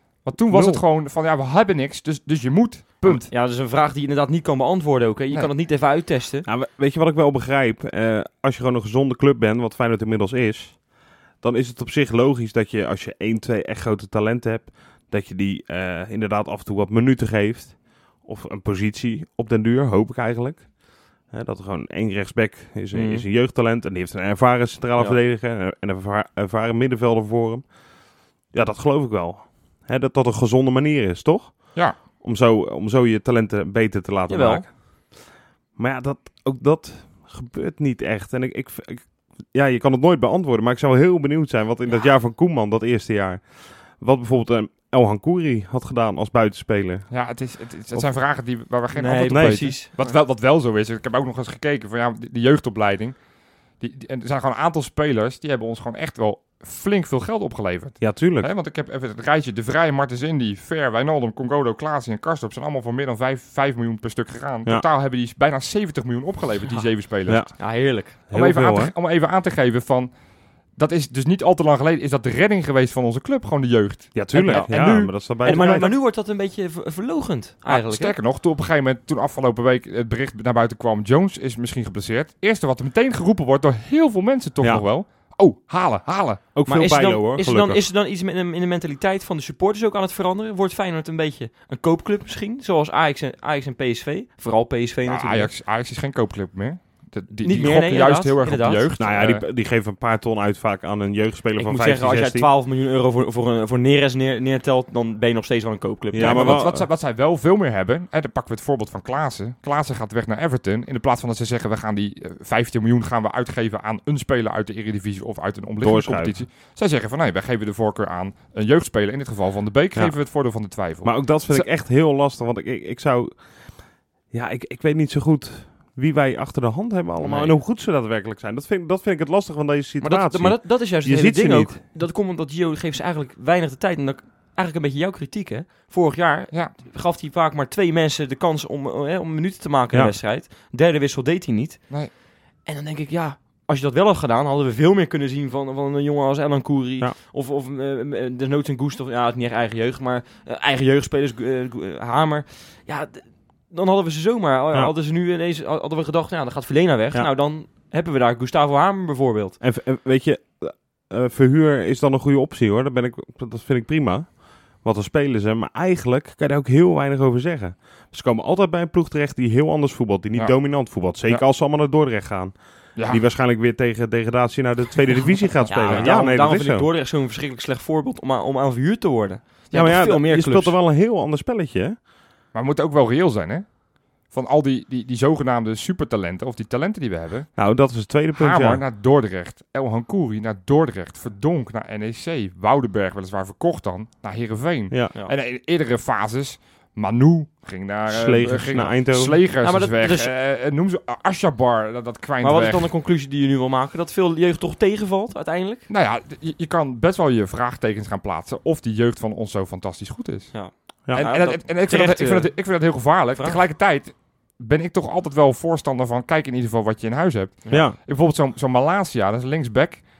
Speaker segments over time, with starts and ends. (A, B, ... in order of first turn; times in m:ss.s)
0:00.2-0:03.3 A
0:00.4-0:00.8 B
0:03.1-0:06.5 C
0:06.5-0:10.8 B
0:11.4-0:20.7 B
0:21.3-0:27.7 B
0:22.9-0:23.2 C
0:28.5-0:34.8 B
0:34.3-0:34.6 C
0:35.8-0:47.1 B
0:47.1-0:53.2 A
0:48.9-0:50.0 C
0:49.3-0:49.7 B
0:53.8-1:07.7 A
0:58.0-0:58.5 B
1:07.3-1:07.5 B
1:07.6-1:08.2 C
1:08.1-1:08.9 B
1:08.3-1:10.1 A
1:10.8-1:15.8 A
1:14.2-1:15.9 B
1:14.4-1:14.8 C
1:15.4-1:18.2 C
1:17.7-1:26.4 A
1:26.6-1:27.8 B
1:26.7-1:35.5 C
1:35.1-1:39.4 A
1:37.4-1:38.9 C
1:39.0-1:42.5 B
1:41.6-1:46.7 C
1:46.1-1:46.9 B
1:46.2-2:01.7 A
1:55.8-1:56.4 B
2:01.0-2:03.5 B
2:04.3-2:11.8 B
2:07.2-2:07.6 C
2:10.0-2:22.0 C
2:22.6-2:39.6 C
2:39.6-2:56.9 B
2:50.3-2:51.4 A
2:53.0-2:53.2 A
2:55.7-3:00.8 C
2:55.8-2:56.1 A
2:59.7-3:02.0 B
3:02.5-3:03.7 A
3:04.3-3:07.5 A
3:07.6-3:08.8 B
3:08.3-3:22.9 A
3:18.1-3:19.4 B
3:19.6-3:20.3 C
3:22.4-3:25.8 C
3:25.9-3:40.0 A
3:30.5-3:32.6 C
3:37.7-3:38.0 B